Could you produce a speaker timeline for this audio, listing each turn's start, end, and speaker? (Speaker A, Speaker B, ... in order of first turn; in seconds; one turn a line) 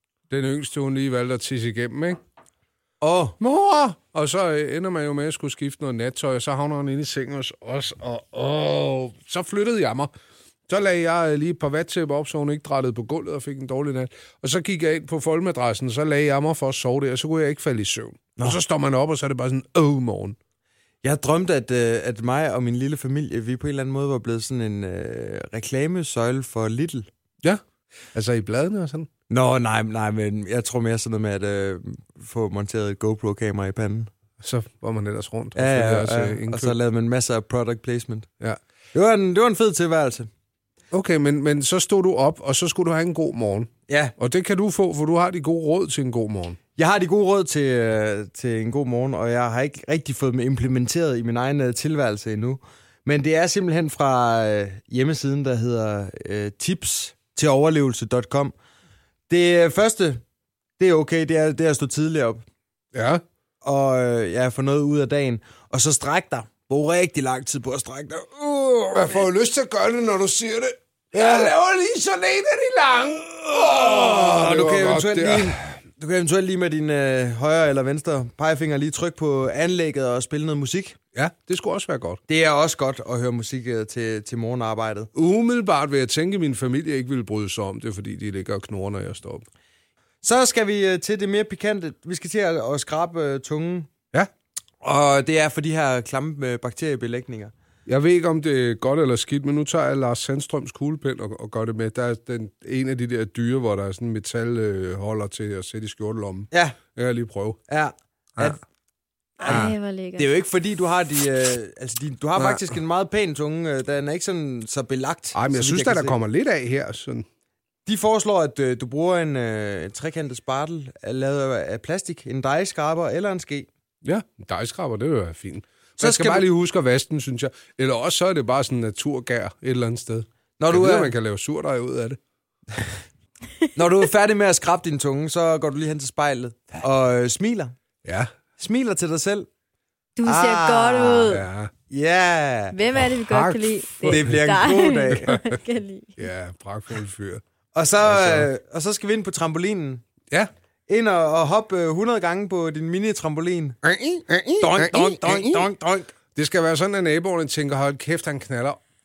Speaker A: 0.3-2.2
Speaker B: 3.0-3.4
Speaker A: 3.4-10.1
Speaker A: 10.7-20.4
Speaker B: 21.0-27.1
Speaker A: 28.1-29.1
Speaker B: 29.3-34.1
Speaker A: 34.4-36.7
Speaker B: 35.5-38.3
Speaker B: 38.9-40.3
Speaker A: 40.9-46.6
Speaker B: 43.9-44.1
Speaker B: 46.8-58.5
Speaker B: 59.3-60.2
Speaker B: 60.8-62.4
Speaker A: 62.9-63.2
Speaker B: 63.6-69.2
Speaker A: 69.0-75.8
Speaker B: 73.8-81.0
Speaker A: 81.2-82.2
Speaker B: 82.3-85.1
Speaker A: 85.2-89.5
Speaker B: 90.2-93.9
Speaker B: 94.8-97.5
Speaker A: 97.9-107.6
Speaker B: 106.5-106.8
Speaker B: 107.7-108.6
Speaker C: 109.4-110.3
Speaker B: 109.4-116.2
Speaker A: 109.5-109.7
Speaker A: 115.3-117.2
Speaker B: 117.9-123.7
Speaker A: 124.0-132.2
Speaker B: 126.0-126.5
Speaker B: 130.6-131.1
Speaker B: 133.8-137.7
Speaker A: 138.1-138.3
Speaker B: 138.6-139.5
Speaker C: 140.2-141.4
Speaker B: 140.3-142.8
Speaker A: 141.3-141.7
Speaker C: 142.7-146.2
Speaker A: 143.3-144.4
Speaker B: 144.1-145.3
Speaker A: 145.1-145.4
Speaker A: 146.2-147.4
Speaker B: 147.7-150.0
Speaker A: 148.0-148.5
Speaker B: 150.9-153.8
Speaker A: 153.8-155.6
Speaker B: 154.6-156.1
Speaker A: 156.3-158.8